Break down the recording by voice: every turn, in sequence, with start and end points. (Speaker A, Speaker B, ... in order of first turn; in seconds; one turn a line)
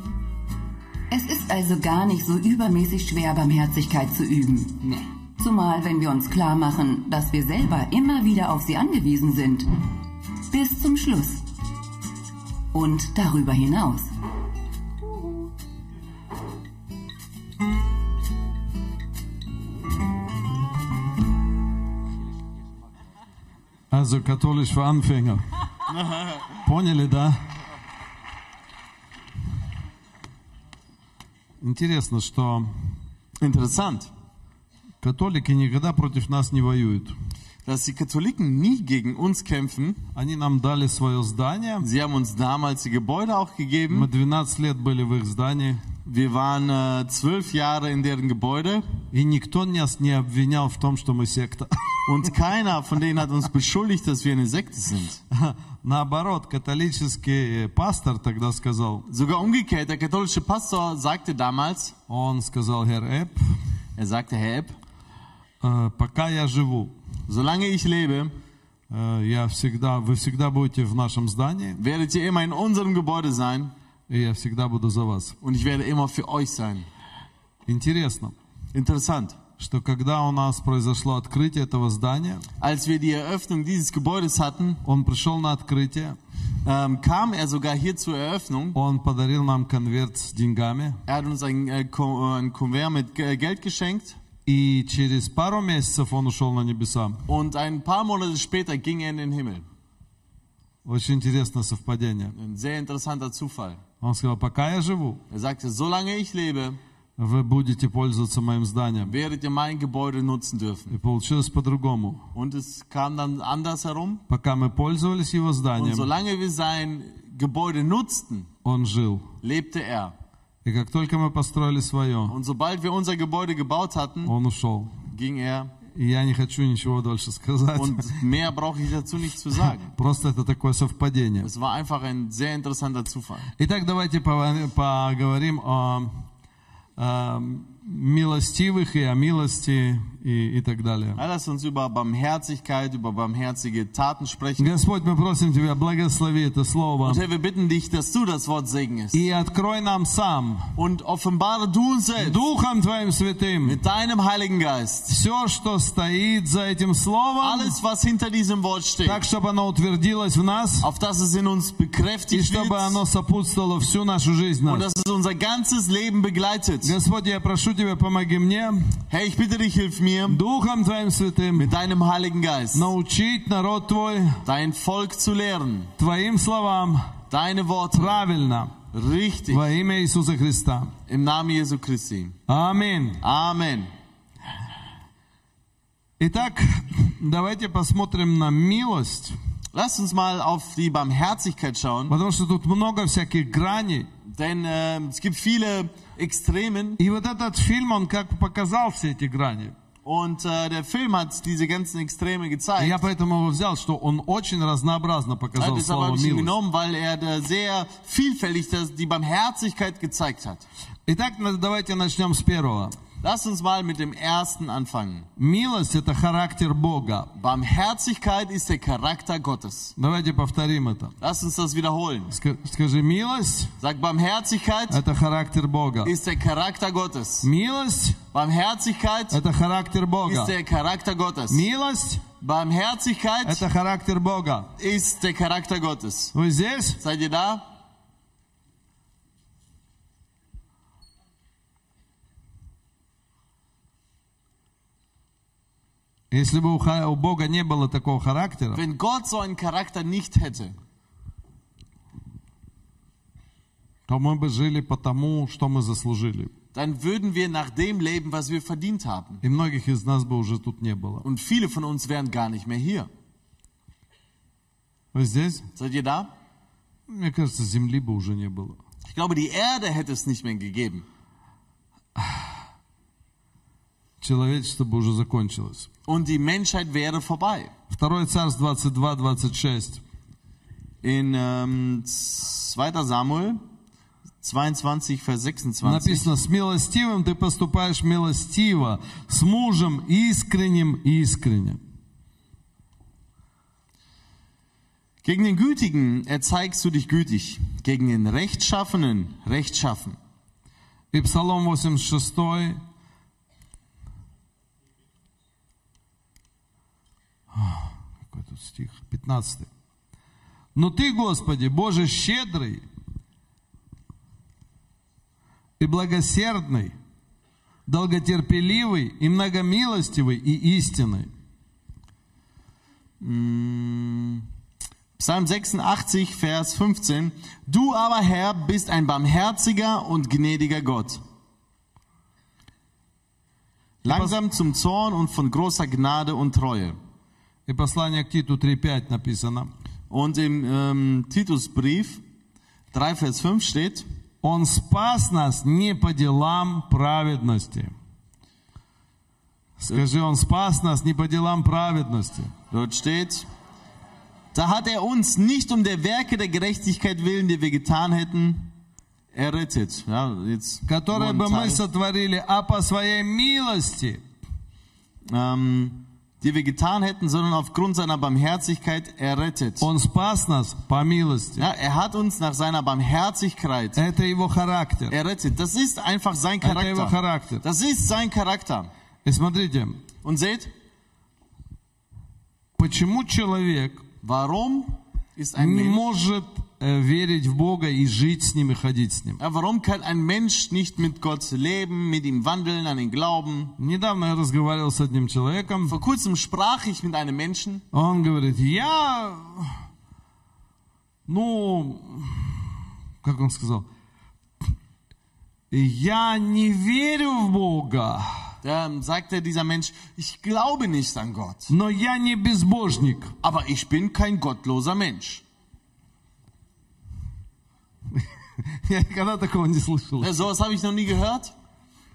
Speaker A: 1.1-9.7
Speaker A: 10.4-11.5
Speaker A: 12.7-14.1
Speaker B: 23.9-25.4
Speaker C: 25.9-26.6
Speaker B: 26.6-27.4
Speaker B: 31.6-32.7
Speaker C: 33.4-34.1
Speaker B: 35.0-37.1
Speaker C: 37.6-40.0
Speaker B: 40.1-41.9
Speaker C: 41.8-44.1
Speaker B: 43.9-45.8
Speaker C: 46.1-48.9
Speaker B: 49.1-51.7
Speaker C: 52.1-55.2
Speaker B: 55.3-59.1
Speaker C: 59.1-62.0
Speaker B: 62.1-63.4
Speaker C: 64.0-64.8
Speaker B: 65.6-66.9
Speaker C: 67.3-68.3
Speaker B: 68.9-71.8
Speaker C: 71.8-73.7
Speaker B: 74.1-75.4
Speaker C: 75.4-76.9
Speaker B: 77.7-78.3
Speaker C: 78.7-79.4
Speaker B: 79.6-82.5
Speaker C: 82.6-84.8
Speaker B: 84.8-86.2
Speaker C: 86.6-88.8
Speaker B: 88.8-91.0
Speaker C: 91.1-94.2
Speaker B: 94.5-97.2
Speaker C: 97.3-99.7
Speaker B: 100.8-102.3
Speaker C: 102.3-103.8
Speaker B: 104.0-105.2
Speaker C: 105.3-106.8
Speaker B: 107.2-109.1
Speaker C: 109.0-111.0
Speaker B: 110.9-112.2
Speaker C: 112.3-114.2
Speaker B: 114.3-116.1
Speaker C: 115.8-118.5
Speaker B: 118.6-119.3
Speaker C: 119.4-120.2
Speaker B: 120.7-122.4
Speaker C: 122.3-124.3
Speaker B: 124.2-125.0
Speaker C: 125.1-125.7
Speaker B: 125.9-128.2
Speaker C: 127.8-129.9
Speaker B: 129.9-131.5
Speaker C: 131.4-133.5
Speaker B: 133.6-136.1
Speaker B: 137.0-141.2
Speaker C: 141.2-144.7
Speaker B: 144.6-147.2
Speaker C: 147.0-149.3
Speaker B: 149.1-150.7
Speaker C: 150.8-152.4
Speaker B: 152.2-153.8
Speaker C: 153.6-155.1
Speaker B: 155.1-157.8
Speaker C: 157.4-159.2
Speaker B: 159.0-160.9
Speaker C: 160.8-163.0
Speaker B: 162.3-164.9
Speaker C: 164.7-166.9
Speaker B: 166.8-169.0
Speaker C: 169.1-170.4
Speaker B: 170.3-171.7
Speaker C: 171.6-172.9
Speaker B: 172.7-174.4
Speaker C: 174.4-175.9
Speaker B: 176.0-177.2
Speaker C: 177.3-178.2
Speaker B: 177.9-178.8
Speaker C: 178.9-179.7
Speaker B: 179.5-180.9
Speaker C: 181.1-182.4
Speaker B: 182.5-183.2
Speaker C: 183.2-183.9
Speaker B: 186.2-189.3
Speaker C: 189.7-192.2
Speaker B: 192.1-194.1
Speaker C: 194.2-197.0
Speaker B: 197.0-199.7
Speaker C: 200.0-203.0
Speaker B: 202.8-206.5
Speaker C: 205.6-210.7
Speaker B: 211.1-213.0
Speaker C: 213.2-215.3
Speaker B: 215.4-217.3
Speaker C: 217.3-219.9
Speaker B: 220.0-221.2
Speaker C: 221.2-222.3
Speaker B: 222.3-223.7
Speaker C: 223.8-225.0
Speaker B: 224.9-226.1
Speaker C: 226.0-227.5
Speaker B: 227.4-228.2
Speaker C: 228.3-229.4
Speaker B: 229.3-230.5
Speaker C: 230.2-231.7
Speaker B: 231.5-232.2
Speaker C: 232.4-233.7
Speaker B: 233.4-234.7
Speaker C: 234.8-236.3
Speaker B: 236.3-237.0
Speaker C: 237.0-237.7
Speaker B: 246.3-248.8
Speaker C: 248.7-250.8
Speaker B: 254.1-256.5
Speaker C: 256.7-259.4
Speaker B: 259.4-261.3
Speaker C: 261.2-263.1
Speaker B: 265.1-265.7
Speaker C: 265.8-266.3
Speaker B: 267.1-268.8
Speaker C: 269.1-271.1
Speaker B: 272.2-272.5
Speaker B: 274.2-275.9
Speaker C: 276.1-277.7
Speaker B: 277.9-280.0
Speaker C: 281.0-283.6
Speaker C: 284.4-286.3
Speaker B: 285.8-291.8
Speaker C: 295.2-300.2
Speaker B: 301.1-302.8
Speaker B: 307.5-309.7
Speaker B: 310.8-312.8
Speaker B: 315.8-316.9
Speaker B: 317.9-321.3
Speaker C: 323.2-324.5
Speaker C: 325.2-331.2
Speaker C: 334.0-337.0
Speaker B: 334.1-334.4
Speaker B: 337.7-339.7
Speaker C: 340.1-342.2
Speaker C: 342.9-344.1
Speaker B: 344.4-347.9
Speaker B: 349.8-352.5
Speaker C: 352.7-353.5
Speaker C: 354.5-358.7
Speaker C: 359.3-361.8
Speaker B: 360.9-364.2
Speaker C: 365.3-369.9
Speaker B: 369.8-371.7
Speaker C: 371.6-374.0
Speaker B: 373.9-375.1
Speaker C: 375.1-378.9
Speaker B: 376.6-377.6
Speaker B: 379.2-380.0
Speaker C: 380.2-380.7
Speaker B: 382.8-384.0
Speaker C: 384.2-386.1
Speaker B: 385.6-389.4
Speaker C: 389.4-393.8
Speaker B: 393.8-396.0
Speaker C: 395.9-397.8
Speaker B: 397.9-399.8
Speaker B: 401.3-402.6
Speaker B: 403.2-403.9
Speaker B: 405.7-408.4
Speaker C: 408.6-411.7
Speaker B: 411.7-413.3
Speaker C: 413.4-415.4
Speaker B: 418.1-420.4
Speaker C: 420.2-421.5